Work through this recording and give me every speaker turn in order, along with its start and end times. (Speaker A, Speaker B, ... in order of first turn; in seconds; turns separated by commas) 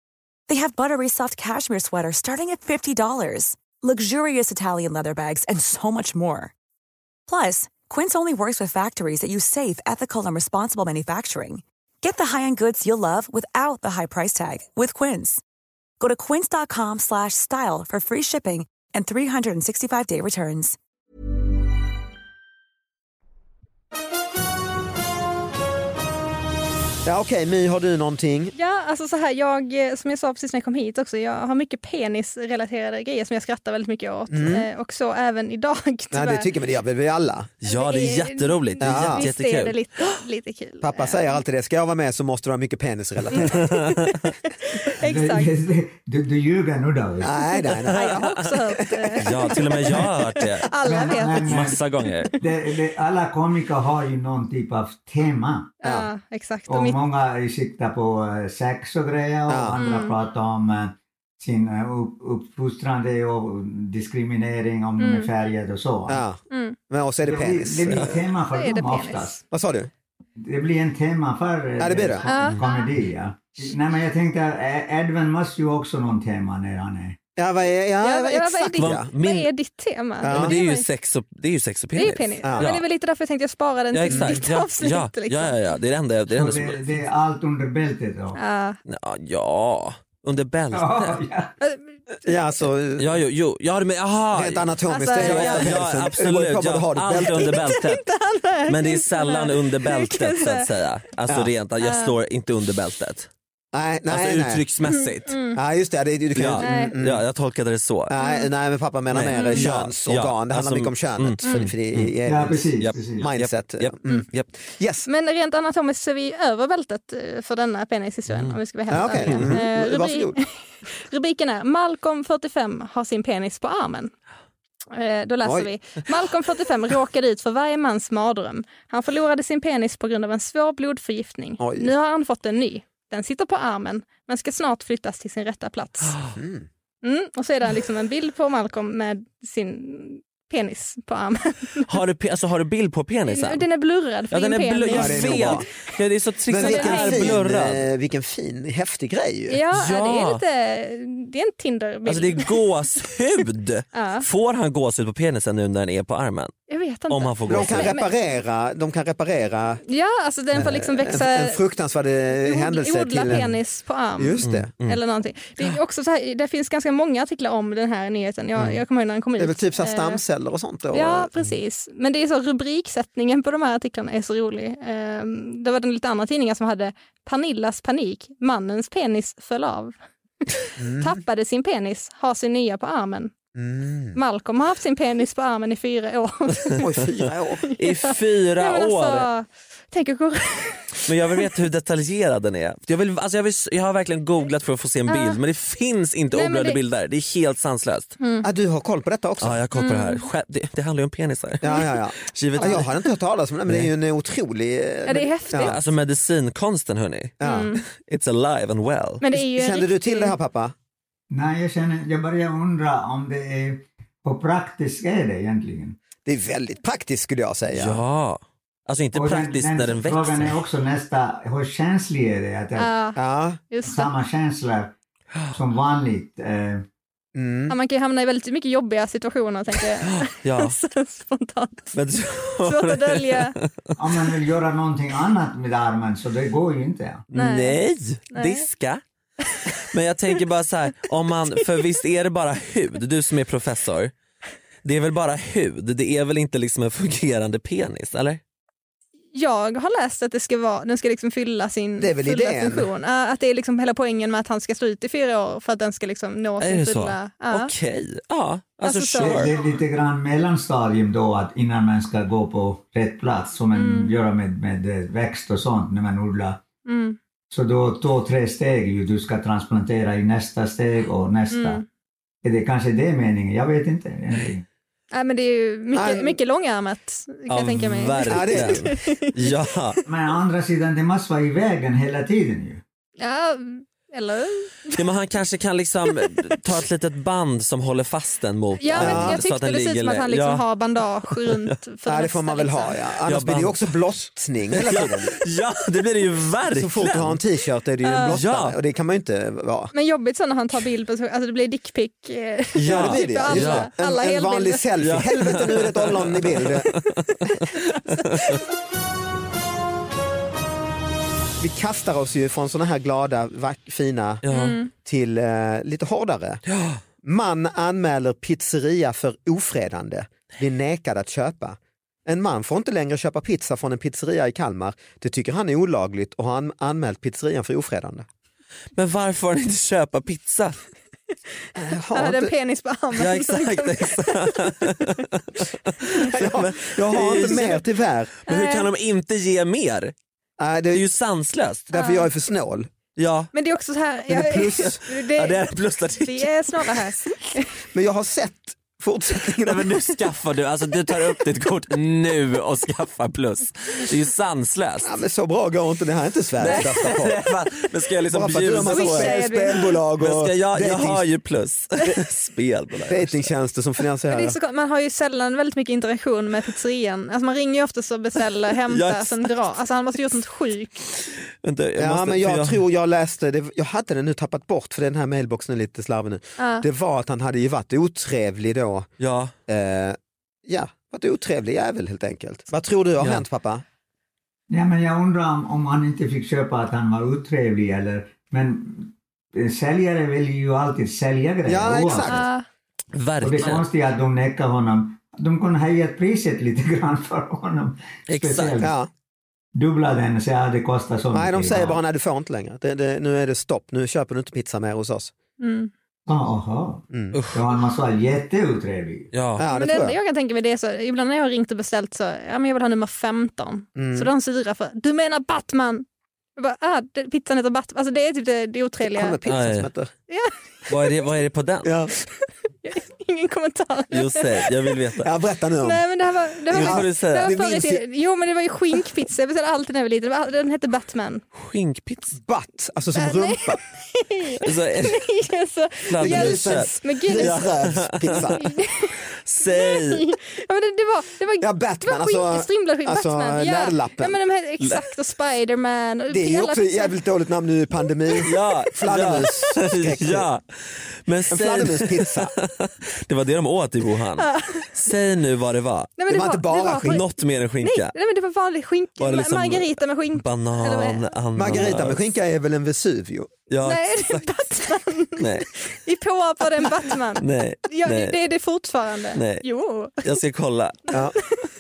Speaker A: 0.5-6.5, Speaker A: 7.3-15.4, Speaker A: 16.0-20.8, Speaker B: 27.1-28.5, Speaker C: 28.6-36.5, Speaker B: 34.3-34.7, Speaker B: 36.1-37.5, Speaker D: 37.6-39.8, Speaker C: 37.7-41.4, Speaker B: 38.8-39.3, Speaker B: 40.8-43.6, Speaker C: 43.3-45.5, Speaker D: 43.4-44.3, Speaker E: 45.0-47.5, Speaker B: 47.2-49.5, Speaker C: 47.4-52.4, Speaker D: 48.1-48.4, Speaker D: 49.2-50.7, Speaker E: 50.8-51.8, Speaker D: 51.5-52.3, Speaker E: 52.4-55.7, Speaker C: 55.8-57.0, Speaker E: 56.7-66.2, Speaker B: 59.5-59.8, Speaker C: 59.8-60.2, Speaker C: 65.0-65.3, Speaker B: 66.1-68.2, Speaker C: 66.5-66.8, Speaker E: 67.2-69.4, Speaker D: 67.9-68.2, Speaker C: 68.5-69.4, Speaker B: 69.5-69.9, Speaker E: 70.4-77.2, Speaker B: 71.8-72.3, Speaker C: 72.2-72.9, Speaker B: 77.4-79.1, Speaker C: 78.0-80.9, Speaker D: 78.8-79.5, Speaker B: 80.2-80.6, Speaker D: 80.3-82.8, Speaker C: 82.0-85.6, Speaker B: 82.4-82.7, Speaker D: 83.9-87.0, Speaker B: 84.1-84.4, Speaker E: 86.3-88.4, Speaker C: 88.4-88.8, Speaker D: 88.9-91.2, Speaker E: 90.7-91.5, Speaker C: 91.6-91.9, Speaker B: 92.2-93.2, Speaker D: 93.0-98.1, Speaker B: 94.3-97.6, Speaker C: 94.9-95.8, Speaker C: 97.4-100.7, Speaker D: 98.7-103.3, Speaker C: 101.8-102.1, Speaker B: 103.7-104.6, Speaker D: 104.1-105.4, Speaker C: 104.9-105.6, Speaker B: 105.5-107.2, Speaker D: 106.4-108.1, Speaker C: 106.6-107.0, Speaker B: 108.1-115.1, Speaker C: 108.2-108.5, Speaker D: 109.1-112.1, Speaker C: 109.3-109.7, Speaker C: 111.4-111.7, Speaker E: 112.2-113.3, Speaker D: 112.8-114.5, Speaker C: 115.1-124.1, Speaker D: 118.3-118.6, Speaker B: 118.9-120.4, Speaker D: 119.3-119.6, Speaker C: 124.9-136.2, Speaker B: 125.4-125.7, Speaker B: 131.6-131.9, Speaker B: 136.3-136.7, Speaker C: 137.0-141.9, Speaker D: 141.9-143.7, Speaker C: 143.3-145.9, Speaker D: 144.3-147.9, Speaker B: 144.9-145.7, Speaker B: 146.5-149.6, Speaker C: 146.5-147.3, Speaker C: 149.5-152.6, Speaker D: 149.7-150.4, Speaker D: 152.1-156.5, Speaker C: 153.9-154.3, Speaker C: 156.7-158.1, Speaker D: 157.1-157.9, Speaker B: 157.5-159.8, Speaker C: 159.9-161.6, Speaker B: 160.5-163.5, Speaker C: 162.3-170.2, Speaker B: 164.2-164.7, Speaker D: 164.4-165.0, Speaker B: 169.4-171.3, Speaker C: 170.9-183.3, Speaker B: 180.8-181.2, Speaker B: 183.6-184.2, Speaker C: 184.1-186.8, Speaker B: 186.8-187.7, Speaker C: 187.6-191.5, Speaker D: 187.8-189.3, Speaker D: 191.1-198.1, Speaker C: 195.1-195.4, Speaker C: 196.3-196.8, Speaker C: 198.2-198.5, Speaker B: 198.4-199.6, Speaker D: 199.4-202.9, Speaker C: 199.8-200.2, Speaker B: 201.6-205.8, Speaker C: 202.6-202.8, Speaker C: 205.1-205.8, Speaker D: 205.6-209.2, Speaker B: 207.4-207.7, Speaker C: 207.4-207.8, Speaker C: 209.2-210.3, Speaker B: 209.3-210.7, Speaker E: 211.3-216.0, Speaker B: 216.2-218.0, Speaker D: 217.7-220.6, Speaker E: 219.2-222.9, Speaker C: 222.8-224.1, Speaker B: 223.2-223.6, Speaker E: 223.8-224.9, Speaker E: 225.5-226.9, Speaker B: 227.3-227.8, Speaker C: 227.7-232.0, Speaker D: 230.0-230.8, Speaker D: 231.9-233.7, Speaker C: 232.6-233.6, Speaker E: 234.0-237.2, Speaker D: 237.3-239.0, Speaker C: 237.3-237.8, Speaker C: 238.3-238.7, Speaker D: 239.9-244.1, Speaker D: 244.8-248.4, Speaker C: 249.3-257.7, Speaker B: 252.0-252.9, Speaker D: 256.6-259.5, Speaker C: 258.8-259.6, Speaker E: 259.2-266.6, Speaker C: 263.7-264.1, Speaker C: 266.9-267.2, Speaker E: 267.5-271.8, Speaker C: 271.5-271.9, Speaker E: 272.4-274.6, Speaker C: 275.1-279.5, Speaker B: 275.9-276.4, Speaker D: 277.5-280.0, Speaker B: 278.3-278.9, Speaker E: 280.1-282.8, Speaker C: 283.2-285.0, Speaker D: 284.9-290.6, Speaker C: 286.2-286.6, Speaker C: 288.8-293.0, Speaker B: 289.0-289.4, Speaker D: 291.3-291.8, Speaker B: 292.1-295.4, Speaker D: 293.3-293.9, Speaker D: 294.7-297.4, Speaker B: 296.7-299.9, Speaker C: 298.0-298.4, Speaker D: 298.3-298.8, Speaker C: 299.9-305.2, Speaker D: 302.8-303.9, Speaker B: 302.8-306.9, Speaker D: 305.0-308.4, Speaker C: 307.6-308.6, Speaker B: 311.6-314.4, Speaker D: 314.4-314.8, Speaker C: 314.5-314.9, Speaker B: 315.0-316.6, Speaker D: 316.7-317.0, Speaker B: 317.2-328.3, Speaker D: 328.9-330.8, Speaker B: 331.8-332.5, Speaker C: 332.1-334.8, Speaker D: 333.2-337.8, Speaker B: 336.2-338.3, Speaker D: 338.4-340.1, Speaker C: 338.5-338.9, Speaker B: 340.6-341.1, Speaker D: 340.9-341.9, Speaker B: 341.9-342.9, Speaker C: 341.9-342.3, Speaker D: 343.2-343.5, Speaker C: 343.5-347.7, Speaker B: 344.3-345.1, Speaker D: 344.5-347.1, Speaker B: 347.9-350.1, Speaker D: 349.4-355.1, Speaker B: 355.0-357.4, Speaker D: 356.6-359.5, Speaker C: 356.8-357.1, Speaker B: 358.3-361.2, Speaker C: 358.8-360.0, Speaker D: 360.2-363.5, Speaker B: 363.1-364.6, Speaker C: 364.3-371.1, Speaker D: 368.9-369.4, Speaker D: 371.6-372.8, Speaker B: 372.0-379.1, Speaker C: 376.6-376.9, Speaker D: 379.2-379.5, Speaker B: 379.7-383.8, Speaker E: 384.7-392.4, Speaker B: 391.7-392.5, Speaker C: 392.2-392.6, Speaker D: 393.1-393.9, Speaker E: 393.4-398.9, Speaker D: 398.3-398.9, Speaker B: 398.8-399.1, Speaker E: 399.8-402.0, Speaker B: 401.3-405.3, Speaker C: 405.6-405.9, Speaker E: 406.3-409.3, Speaker B: 407.1-407.4, Speaker D: 407.3-407.8, Speaker D: 409.3-409.6, Speaker B: 409.6-410.2, Speaker C: 409.7-416.1, Speaker B: 413.9-414.3, Speaker C: 416.6-419.4, Speaker B: 419.0-420.1, Speaker D: 419.5-419.9, Speaker C: 420.3-421.1, Speaker D: 420.9-421.9, Speaker B: 421.8-422.1, Speaker C: 422.8-424.7, Speaker D: 424.1-425.3, Speaker B: 425.2-426.1, Speaker C: 425.8-431.4, Speaker B: 426.7-428.0, Speaker D: 426.7-427.6, Speaker D: 431.6-432.4, Speaker B: 432.4-433.8, Speaker C: 433.2-437.6, Speaker D: 434.6-435.4, Speaker D: 436.1-438.5, Speaker B: 436.2-438.7, Speaker C: 438.3-447.2, Speaker D: 439.4-440.3, Speaker B: 441.6-444.4, Speaker D: 444.8-445.1, Speaker B: 446.3-450.5, Speaker D: 448.4-456.1, Speaker B: 451.5-452.5, Speaker C: 454.4-454.9, Speaker C: 456.2-457.3, Speaker B: 456.3-457.2, Speaker D: 457.0-458.1, Speaker C: 457.8-461.3, Speaker D: 459.2-462.2, Speaker B: 461.6-463.6, Speaker D: 463.7-464.5, Speaker C: 463.8-470.3, Speaker D: 465.3-465.7, Speaker D: 467.4-468.4, Speaker D: 469.4-469.7, Speaker D: 470.2-471.2, Speaker C: 471.1-471.6